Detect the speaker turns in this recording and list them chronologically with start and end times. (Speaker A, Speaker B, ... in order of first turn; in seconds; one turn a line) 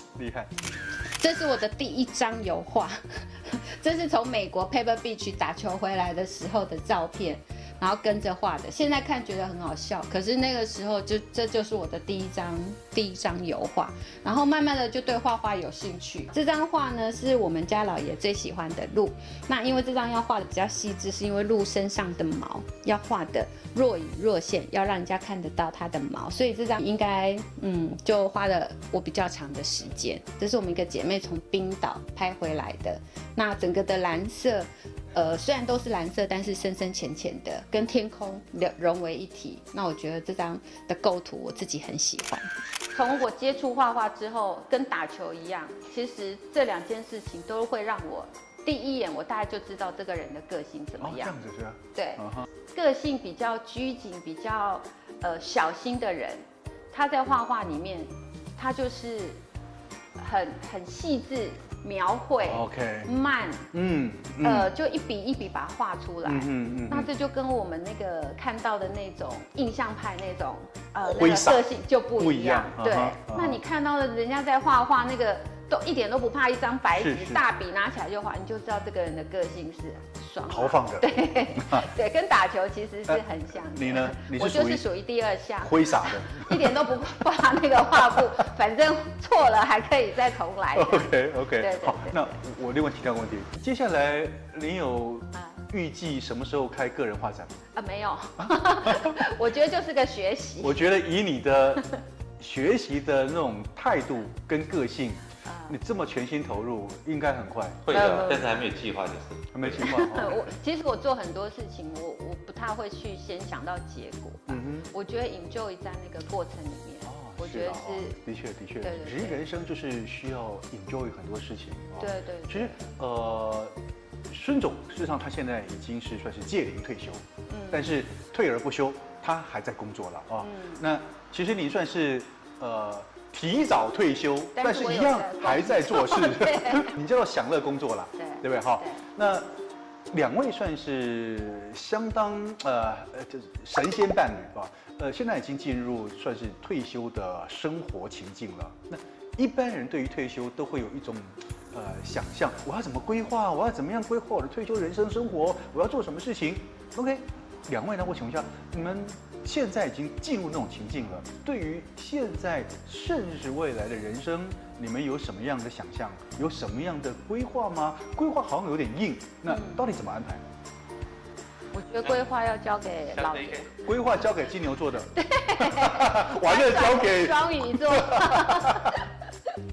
Speaker A: 0.2-0.5
Speaker B: 1.2-51.4
Speaker A: 51.0-52.5
Speaker B: 51.9-59.4
Speaker B: 60.2-63.7
Speaker A: 62.4-63.1
Speaker A: 63.7-64.7
Speaker B: 64.4-92.3
Speaker A: 66.2-67.1
Speaker A: 71.0-73.6
Speaker A: 77.0-77.5
Speaker A: 80.5-81.9
Speaker A: 83.1-84.9
Speaker A: 85.6-87.0
Speaker A: 90.7-97.6
Speaker B: 95.3-95.6
Speaker B: 97.7-100.8
Speaker A: 98.4-99.2
Speaker A: 100.6-101.9
Speaker A: 102.4-108.1
Speaker B: 105.4-105.8
Speaker C: 107.8-109.8
Speaker B: 107.9-108.5
Speaker A: 109.5-110.5
Speaker B: 109.8-118.2
Speaker A: 114.5-114.9
Speaker A: 117.0-123.8
Speaker B: 118.8-119.4
Speaker B: 122.0-122.8
Speaker A: 124.3-139.5
Speaker B: 127.5-128.0
Speaker B: 130.4-130.8
Speaker B: 134.5-136.9
Speaker B: 138.2-139.0
Speaker A: 140.1-170.4
Speaker B: 169.5-169.8
Speaker B: 171.7-173.9
Speaker C: 172.0-172.3
Speaker C: 173.1-173.7
Speaker A: 173.8-179.0
Speaker B: 175.2-179.5